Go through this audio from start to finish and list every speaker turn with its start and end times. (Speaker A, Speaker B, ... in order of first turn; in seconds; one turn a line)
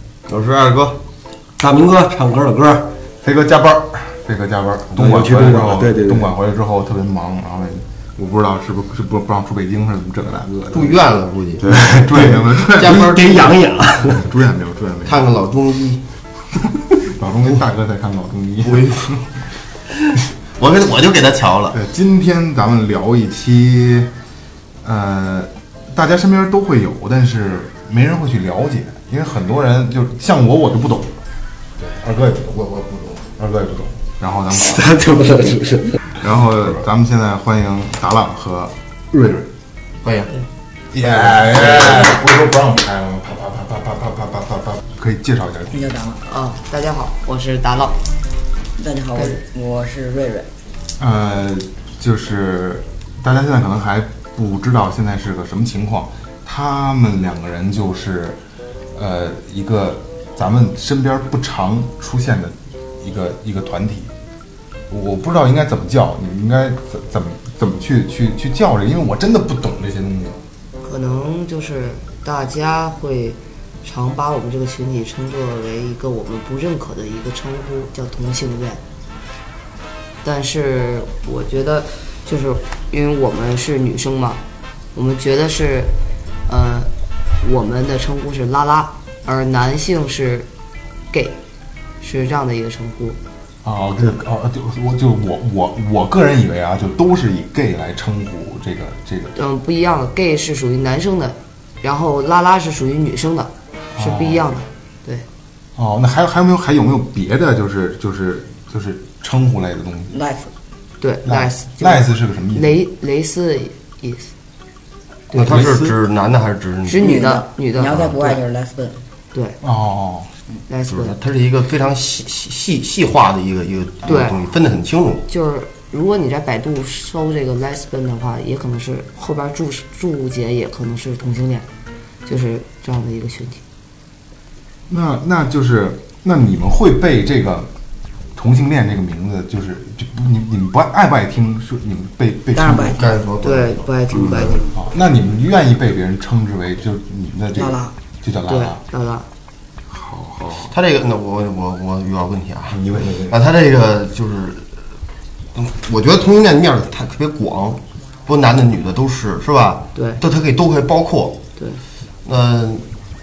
Speaker A: 0.3-1.0
Speaker B: 1.6-2.9
Speaker C: 3.2-10.9
Speaker B: 4.9-6.3
Speaker A: 10.7-11.7
Speaker B: 11.6-14.3
Speaker C: 11.7-13.5
Speaker A: 12.8-13.7
Speaker C: 14.1-15.3
Speaker A: 15.1-16.0
Speaker C: 17.0-19.2
Speaker A: 18.6-19.3
Speaker A: 20.6-21.8
Speaker C: 21.7-24.1
Speaker C: 24.8-31.1
Speaker C: 32.0-32.6
Speaker A: 32.5-33.2
Speaker C: 33.3-35.0
Speaker B: 34.6-36.0
Speaker C: 36.2-39.4
Speaker A: 40.0-40.3
Speaker C: 40.9-45.8
Speaker A: 41.1-42.2
Speaker D: 45.7-46.2
Speaker E: 46.2-48.0
Speaker D: 48.8-50.5
Speaker C: 51.0-58.4
Speaker C: 58.9-64.1
Speaker C: 64.9-70.4
Speaker E: 70.8-78.8
Speaker E: 80.2-84.4
Speaker E: 84.9-85.9
Speaker E: 86.5-86.9
Speaker E: 87.4-90.5
Speaker E: 91.1-91.4
Speaker E: 92.0-93.2
Speaker C: 93.6-99.3
Speaker E: 99.3-105.2
Speaker C: 103.9-104.5
Speaker C: 105.8-110.2
Speaker D: 110.1-110.5
Speaker E: 111.0-114.3
Speaker C: 111.2-112.8
Speaker A: 115.3-117.0
Speaker C: 115.4-115.9
Speaker E: 116.9-118.2
Speaker D: 116.9-119.0
Speaker C: 119.6-120.3
Speaker E: 120.7-121.2
Speaker A: 120.9-125.2
Speaker E: 124.0-124.3
Speaker E: 125.3-131.7
Speaker E: 132.2-133.6
Speaker C: 134.9-137.7
Speaker C: 138.3-143.2
Speaker D: 142.5-143.0
Speaker A: 142.9-144.5
Speaker E: 143.4-144.7
Speaker C: 144.7-148.8
Speaker D: 147.5-147.9
Speaker E: 148.5-149.2
Speaker C: 149.9-150.7
Speaker A: 150.7-154.7
Speaker C: 152.7-153.4
Speaker A: 155.5-161.4
Speaker E: 159.9-160.2
Speaker A: 162.2-162.8